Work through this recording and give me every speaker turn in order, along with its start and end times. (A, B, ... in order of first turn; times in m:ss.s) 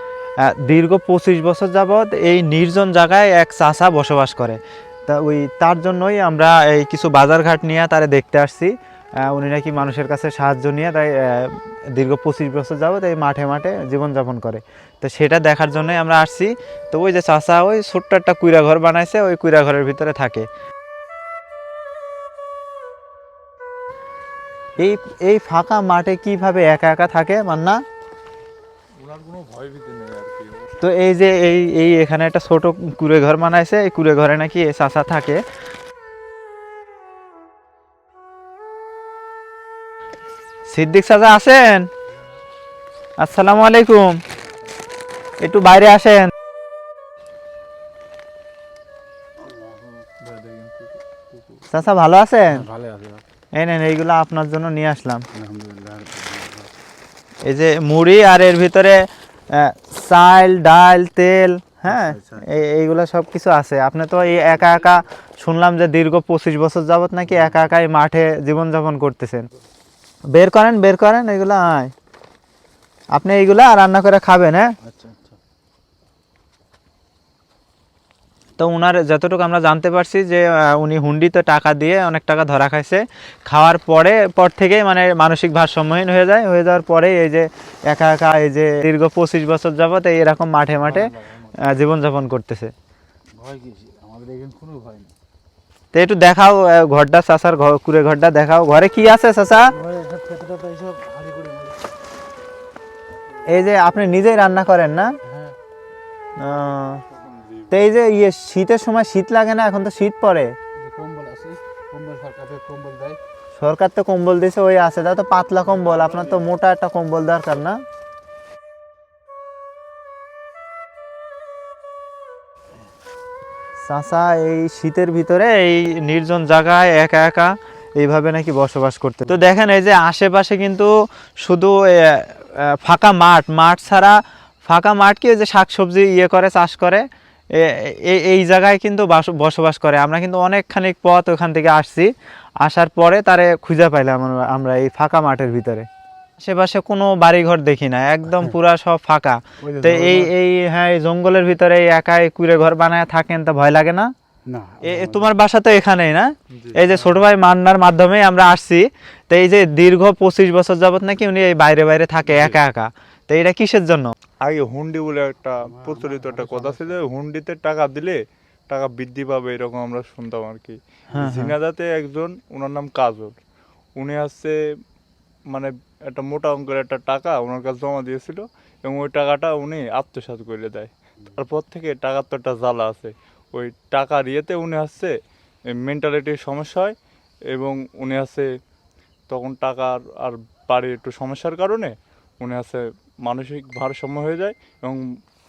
0:00.4-0:20.5 A
0:24.8-0:27.8 A
0:29.0-0:30.7 B
0:30.8-0:35.4 A
0:40.7-0:41.9 A
0:43.2-0:44.2 A
0:45.4-0:46.3 A
0:49.4-0:50.0 C
0:50.2-0:51.6 B
0:51.7-0:52.6 A
0:52.4-0:53.2 C
0:53.6-0:55.2 A
0:55.3-0:56.7 C
0:57.4-1:09.5 A
1:01.9-1:02.4 C
1:07.3-1:07.7 C
1:10.3-1:11.9 A
1:13.1-1:14.7 A
1:14.8-1:15.4 C
1:18.6-1:32.7 A
1:30.8-1:31.8 C
1:33.3-1:35.1 C
1:35.9-1:39.8 A
1:39.7-1:41.9 C
1:43.5-1:45.2 A
1:45.2-1:45.6 C
1:46.4-1:47.7 B
1:46.4-1:47.0 A
1:47.7-1:50.5 A
1:50.8-1:53.2 C
1:53.6-1:57.8 A
1:55.8-1:56.4 C
2:03.8-2:10.9 A
2:11.4-2:17.0 A
2:17.6-2:22.1 A
2:22.6-2:34.1 A
2:29.6-2:30.3 C
2:34.5-2:35.3 C
2:34.8-2:44.1 A
2:36.5-2:37.0 B
2:44.4-2:53.4 B
2:45.6-2:47.0 C
2:51.1-2:51.4 C
2:51.1-2:51.5 A
2:54.0-2:54.6 B
2:55.5-3:05.2 B
3:05.7-3:07.0 B
3:07.5-3:08.5 B
3:09.3-3:15.0 B